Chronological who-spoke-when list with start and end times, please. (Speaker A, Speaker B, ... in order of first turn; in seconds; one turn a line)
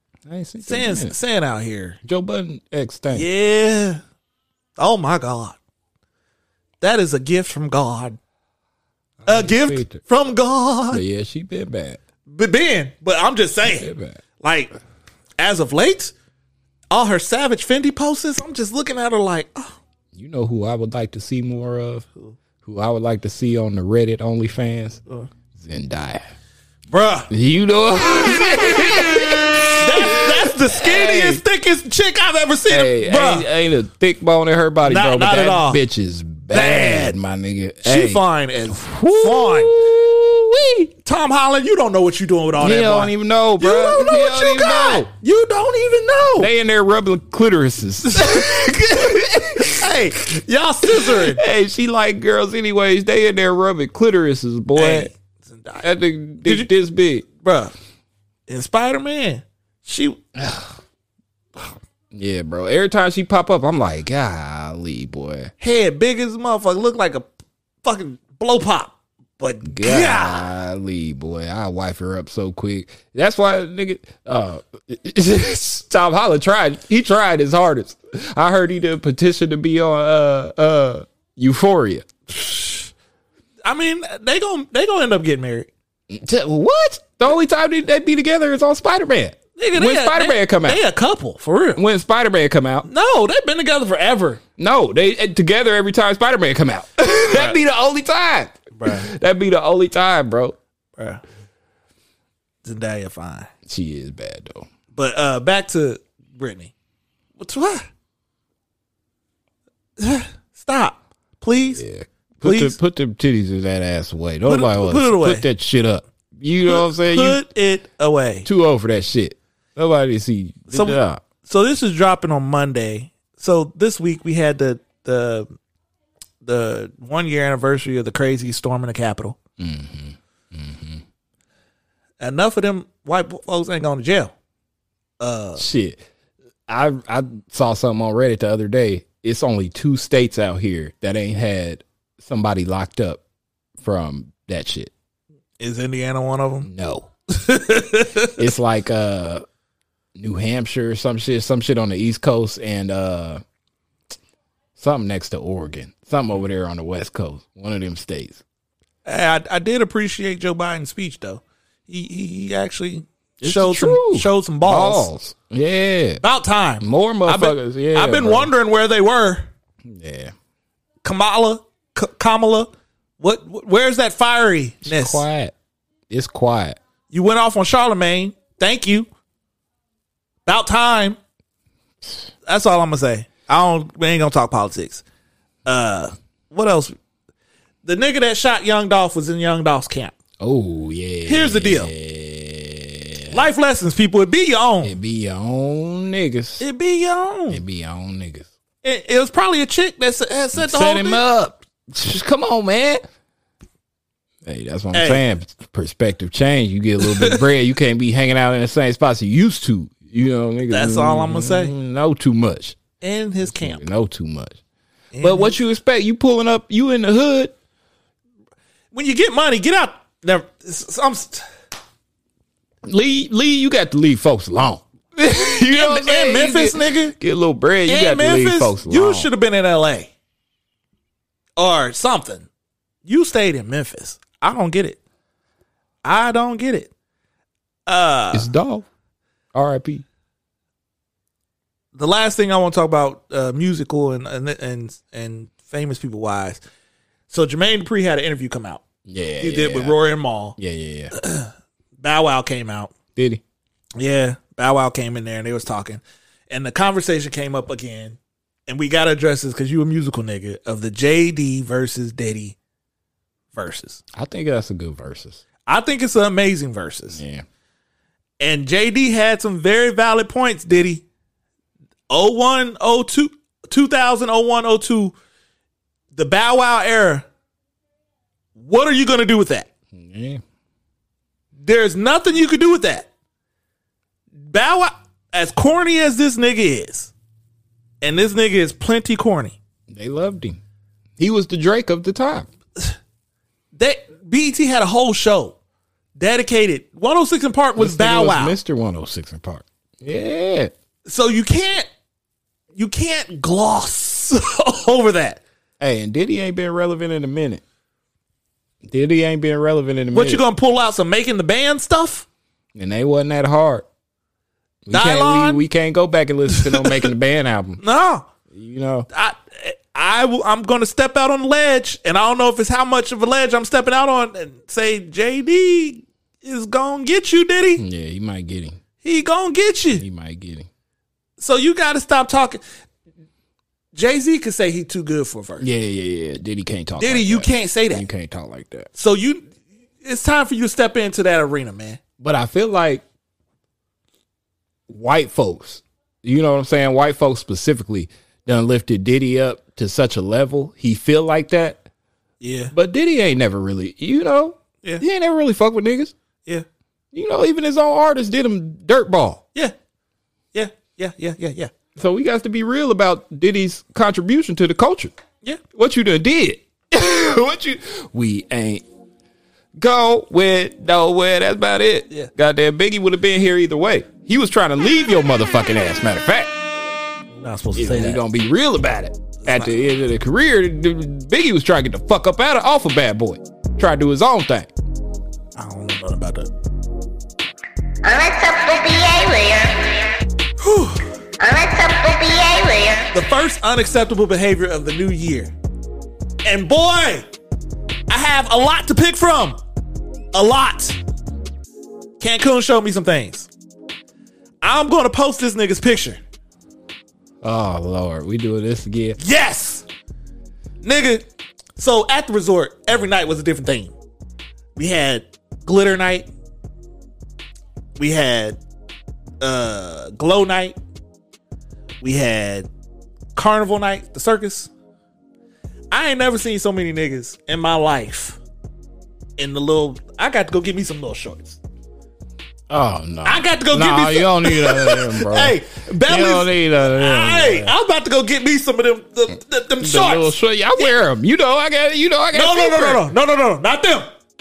Speaker A: 0.3-1.1
Speaker B: 0.6-2.0
Speaker A: 2.0-3.3
Speaker B: 3.1-4.0
Speaker B: 4.8-5.6
Speaker B: 6.8-8.2
Speaker A: 9.2-10.0
Speaker B: 9.3-11.0
Speaker A: 10.9-12.0
Speaker B: 12.3-14.7
Speaker A: 13.6-14.2
Speaker B: 15.4-16.1
Speaker B: 16.9-19.8
Speaker A: 20.1-22.1
Speaker A: 22.6-25.0
Speaker A: 25.6-26.3
Speaker B: 26.9-27.3
Speaker A: 27.3-31.4
Speaker B: 29.8-33.5
Speaker A: 32.7-40.9
Speaker B: 34.8-35.8
Speaker B: 36.5-37.2
Speaker B: 37.8-39.8
Speaker B: 41.0-46.5
Speaker A: 42.6-45.1
Speaker A: 46.4-49.9
Speaker B: 48.1-48.5
Speaker B: 49.6-51.4
Speaker A: 50.9-55.1
Speaker B: 54.8-55.9
Speaker A: 55.8-57.3
Speaker B: 56.4-56.7
Speaker B: 57.4-57.7
Speaker B: 58.5-60.2
Speaker A: 60.4-60.8
Speaker A: 61.6-65.5
Speaker B: 65.6-67.3
Speaker B: 67.8-70.5
Speaker A: 69.7-82.1
Speaker B: 82.3-82.9
Speaker B: 83.7-85.7
Speaker A: 86.1-90.8
Speaker B: 89.6-91.8
Speaker A: 91.8-92.9
Speaker B: 92.8-94.4
Speaker A: 94.6-100.6
Speaker B: 97.3-97.6
Speaker B: 98.8-99.1
Speaker B: 101.0-101.2
Speaker B: 102.6-103.5
Speaker A: 103.7-104.7
Speaker B: 105.0-106.7
Speaker B: 107.4-107.9
Speaker B: 110.0-111.8
Speaker A: 111.8-117.4
Speaker B: 112.4-112.8
Speaker B: 114.5-115.5
Speaker B: 116.7-118.5
Speaker A: 118.5-121.2
Speaker B: 120.7-125.5
Speaker B: 126.4-129.4
Speaker A: 129.6-131.0
Speaker B: 132.2-134.3
Speaker B: 135.2-135.6
Speaker A: 135.6-136.0
Speaker A: 136.7-143.2
Speaker A: 143.8-144.9
Speaker B: 145.6-146.7
Speaker A: 146.7-147.1
Speaker B: 147.3-148.4
Speaker A: 148.4-149.4
Speaker A: 150.2-153.4
Speaker A: 154.8-158.4
Speaker B: 159.1-165.1
Speaker A: 163.4-166.2
Speaker B: 166.2-169.5
Speaker A: 166.8-168.5
Speaker A: 169.8-170.3
Speaker B: 171.0-175.2
Speaker A: 174.8-175.5
Speaker A: 176.1-176.8
Speaker B: 177.1-179.1
Speaker B: 180.5-181.2
Speaker B: 182.5-185.0
Speaker B: 185.7-187.0
Speaker B: 187.8-190.2
Speaker A: 190.4-193.4
Speaker B: 191.2-191.9
Speaker B: 193.3-195.0
Speaker A: 194.8-196.6
Speaker B: 196.6-197.6
Speaker A: 197.5-198.5
Speaker B: 198.8-201.2
Speaker A: 200.5-203.0
Speaker A: 204.4-212.8
Speaker B: 204.9-205.2
Speaker B: 207.0-207.4
Speaker B: 210.7-211.7
Speaker B: 213.0-213.8
Speaker A: 213.4-214.6
Speaker B: 215.1-215.6
Speaker A: 215.2-217.6
Speaker B: 218.9-221.4
Speaker A: 222.8-229.3
Speaker B: 225.7-227.1
Speaker B: 227.9-230.1
Speaker B: 231.6-232.5
Speaker B: 233.1-235.0
Speaker B: 236.0-236.9
Speaker B: 237.9-238.5
Speaker A: 238.3-238.9
Speaker A: 239.5-240.0
Speaker B: 241.9-246.6
Speaker B: 247.3-248.8
Speaker A: 249.1-250.0
Speaker B: 249.4-250.6
Speaker A: 250.6-251.1
Speaker B: 251.1-252.9
Speaker A: 253.2-253.4
Speaker B: 254.0-262.6
Speaker B: 263.5-264.0
Speaker A: 264.1-265.4
Speaker B: 265.7-267.2
Speaker A: 267.1-267.4
Speaker B: 268.4-271.0
Speaker B: 272.1-275.1
Speaker B: 276.1-277.3
Speaker B: 278.6-279.7
Speaker A: 279.9-280.4
Speaker B: 281.6-283.1
Speaker B: 284.5-287.1
Speaker B: 288.0-289.6
Speaker A: 289.9-290.6
Speaker A: 291.2-292.5
Speaker B: 293.8-295.6
Speaker B: 296.2-298.6
Speaker A: 297.8-300.7
Speaker B: 301.1-301.9
Speaker B: 302.8-305.4
Speaker A: 305.8-307.6
Speaker A: 308.8-310.4
Speaker B: 310.1-312.3
Speaker A: 312.8-313.9
Speaker A: 314.9-317.8
Speaker B: 314.9-315.6
Speaker B: 316.5-317.0
Speaker B: 317.8-318.3
Speaker A: 318.5-319.1
Speaker B: 319.1-327.8
Speaker A: 327.8-328.8
Speaker B: 329.0-330.1
Speaker A: 330.0-330.7
Speaker B: 331.4-332.6
Speaker B: 333.9-335.7
Speaker A: 335.6-338.9
Speaker B: 337.0-338.1
Speaker B: 338.9-339.5
Speaker B: 340.0-342.0
Speaker A: 342.2-343.0
Speaker A: 344.9-351.8
Speaker B: 352.4-352.7
Speaker A: 352.7-356.1
Speaker A: 357.1-359.4
Speaker B: 360.5-361.7
Speaker A: 362.0-365.1
Speaker A: 365.7-368.8
Speaker A: 369.8-376.5
Speaker B: 377.4-378.2
Speaker A: 377.8-384.7
Speaker B: 379.4-379.8
Speaker B: 385.6-386.5
Speaker C: 388.0-389.9
Speaker B: 390.6-391.1
Speaker C: 391.4-393.1
Speaker B: 393.1-395.5
Speaker B: 396.4-397.3
Speaker B: 398.1-399.6
Speaker B: 400.3-401.0
Speaker B: 402.2-403.5
Speaker B: 404.6-406.2
Speaker A: 407.4-409.2
Speaker B: 409.2-409.9
Speaker B: 410.8-411.2
Speaker B: 411.8-413.9
Speaker B: 414.8-416.3
Speaker B: 418.0-418.6
Speaker B: 419.4-420.8
Speaker B: 422.0-422.7
Speaker B: 423.4-424.7
Speaker B: 425.9-428.4
Speaker B: 429.4-431.6
Speaker A: 432.7-437.7
Speaker B: 433.2-440.9
Speaker A: 439.8-443.1
Speaker B: 442.3-444.1